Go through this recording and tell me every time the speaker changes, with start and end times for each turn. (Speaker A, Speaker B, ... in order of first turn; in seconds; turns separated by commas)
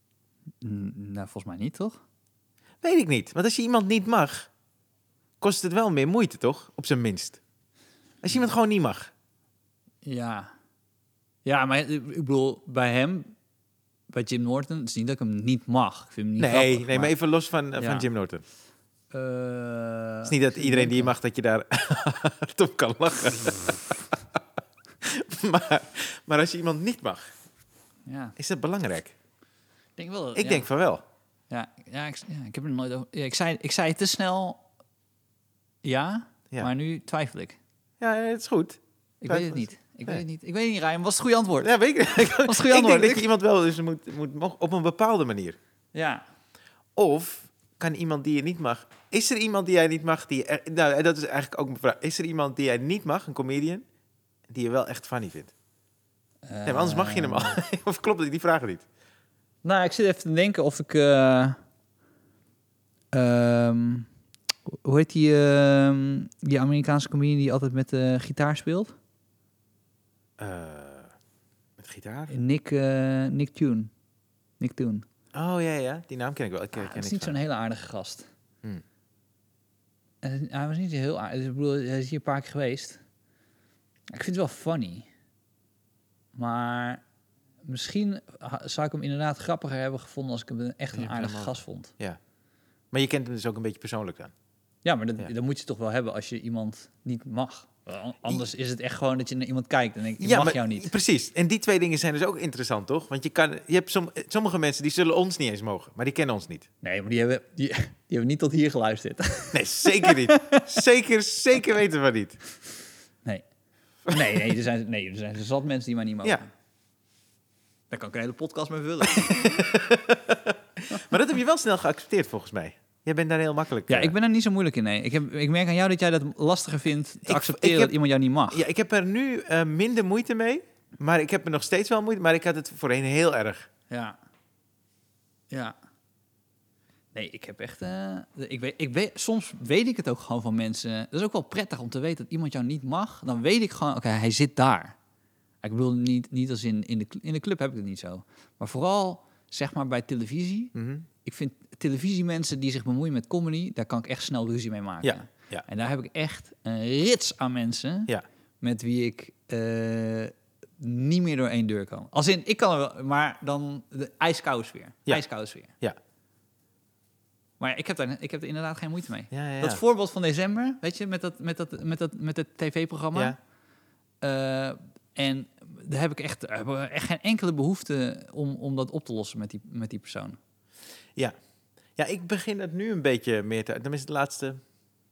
Speaker A: 0.6-2.0, Speaker B: 2.8-4.5, Speaker B: 5.4-7.4, Speaker B: 8.2-9.1, Speaker A: 10.0-10.5, Speaker A: 11.4-13.3, Speaker A: 14.1-17.1, Speaker B: 16.4-18.4, Speaker A: 17.8-18.1, Speaker A: 19.1-21.1, Speaker B: 20.2-23.9, Speaker B: 25.0-27.3, Speaker A: 28.1-28.4, Speaker B: 28.4-29.1, Speaker A: 30.0-30.7, Speaker B: 30.4-31.0, Speaker A: 31.5-34.6, Speaker A: 35.8-37.6, Speaker B: 38.0-40.2, Speaker A: 39.2-43.3, Speaker B: 41.6-45.6, Speaker A: 46.0-46.2, Speaker B: 47.0-53.9, Speaker B: 54.5-55.5, Speaker A: 56.5-57.6, Speaker B: 56.7-58.9, Speaker A: 59.6-61.6, Speaker A: 63.1-64.1, Speaker A: 64.7-68.9, Speaker B: 70.4-71.1, Speaker B: 71.8-72.3, Speaker A: 72.3-73.9, Speaker A: 74.6-75.0, Speaker B: 75.3-77.4, Speaker A: 76.8-78.3, Speaker A: 80.2-83.0, Speaker A: 84.1-85.1, Speaker A: 86.3-87.0, Speaker A: 87.7-91.9, Speaker B: 90.9-92.2, Speaker B: 92.9-94.3, Speaker A: 94.8-100.9, Speaker B: 100.2-106.7, Speaker A: 106.8-110.7, Speaker B: 109.5-112.4, Speaker B: 114.1-114.4, Speaker A: 114.1-116.5, Speaker A: 117.9-119.5, Speaker B: 119.1-124.1, Speaker A: 123.9-128.7, Speaker B: 127.3-127.9, Speaker B: 128.5-133.7, Speaker A: 133.9-134.2, Speaker A: 137.1-145.0, Speaker A: 145.6-165.7, Speaker B: 150.8-151.1, Speaker B: 155.0-155.7, Speaker A: 167.6-173.4, Speaker B: 169.3-169.8, Speaker A: 174.2-180.4, Speaker B: 182.0-184.6